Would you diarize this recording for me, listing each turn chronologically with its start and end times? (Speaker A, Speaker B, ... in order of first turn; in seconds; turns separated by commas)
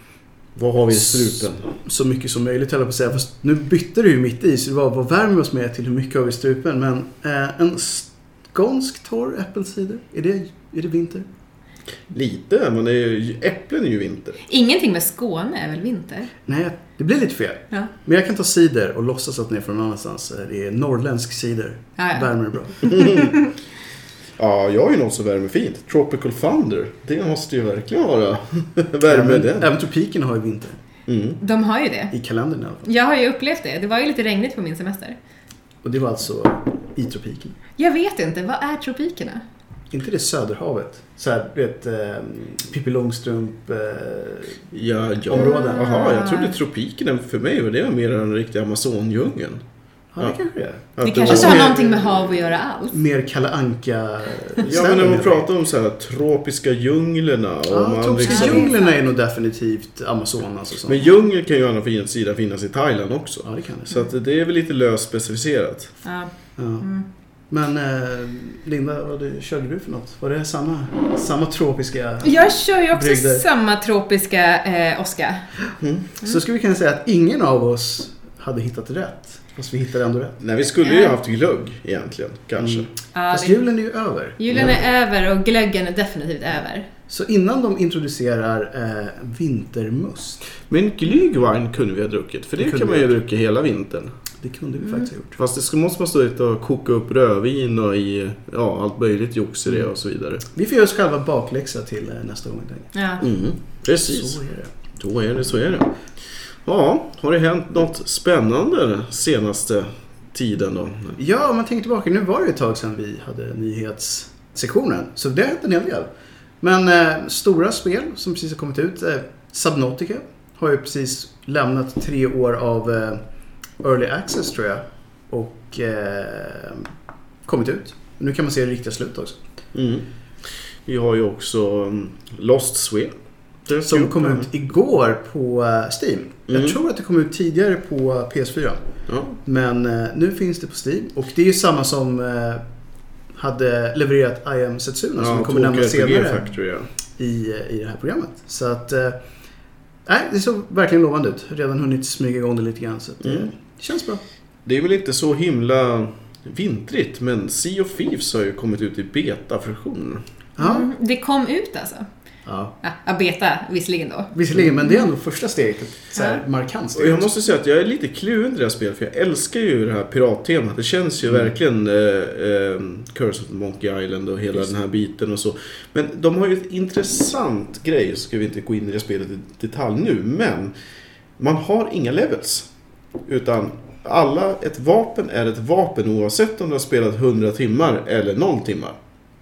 Speaker A: 0.6-1.7, Speaker B: 0.9-11.3, Speaker A: 12.1-14.4, Speaker C: 14.5-16.3, Speaker B: 16.5-23.4, Speaker C: 22.0-22.3, Speaker C: 22.9-23.2, Speaker A: 22.9-23.3, Speaker A: 24.4-29.7, Speaker B: 29.1-30.8, Speaker A: 31.1-31.4, Speaker C: 31.4-32.1, Speaker B: 32.1-32.9, Speaker C: 32.9-35.2, Speaker B: 35.8-37.6, Speaker C: 37.8-39.4, Speaker B: 39.9-44.6, Speaker A: 44.7-49.6, Speaker B: 45.2-46.1, Speaker C: 45.4-46.6, Speaker B: 50.1-52.1, Speaker A: 51.0-51.9, Speaker C: 51.0-53.0, Speaker B: 52.9-55.5, Speaker A: 54.6-58.7, Speaker B: 57.7-61.0, Speaker C: 58.1-59.0, Speaker A: 60.9-65.9, Speaker B: 63.4-64.0, Speaker C: 66.0-67.0, Speaker B: 66.6-66.9, Speaker B: 67.5-73.4, Speaker C: 72.2-75.5, Speaker A: 75.8-76.1, Speaker B: 76.2-80.4, Speaker A: 80.4-82.9, Speaker C: 80.8-81.2, Speaker B: 82.6-84.8, Speaker C: 83.2-83.6, Speaker C: 84.4-86.9, Speaker A: 84.5-84.8, Speaker B: 87.1-90.4, Speaker A: 90.7-94.2, Speaker B: 92.6-93.1, Speaker B: 94.4-95.4, Speaker A: 95.4-100.4, Speaker B: 100.5-102.9, Speaker C: 103.0-103.2, Speaker A: 103.2-104.4, Speaker B: 104.0-104.7, Speaker A: 105.0-105.9, Speaker A: 106.6-111.2, Speaker B: 111.2-116.1, Speaker B: 116.6-123.2, Speaker B: 123.8-126.9, Speaker B: 127.5-129.4, Speaker A: 129.7-130.1, Speaker A: 130.8-133.1, Speaker A: 133.7-134.5, Speaker B: 133.9-138.8, Speaker A: 136.5-136.8, Speaker A: 139.1-139.4, Speaker B: 139.4-142.6, Speaker B: 143.3-146.5, Speaker A: 145.2-146.9, Speaker B: 147.2-149.2, Speaker B: 150.1-154.2, Speaker A: 153.2-153.5, Speaker A: 154.7-160.2, Speaker B: 160.6-160.9, Speaker C: 160.6-162.1, Speaker B: 162.5-162.7, Speaker C: 162.8-164.3, Speaker B: 164.3-167.3, Speaker C: 166.2-166.4, Speaker A: 166.9-180.7, Speaker A: 181.4-182.7, Speaker A: 183.3-189.0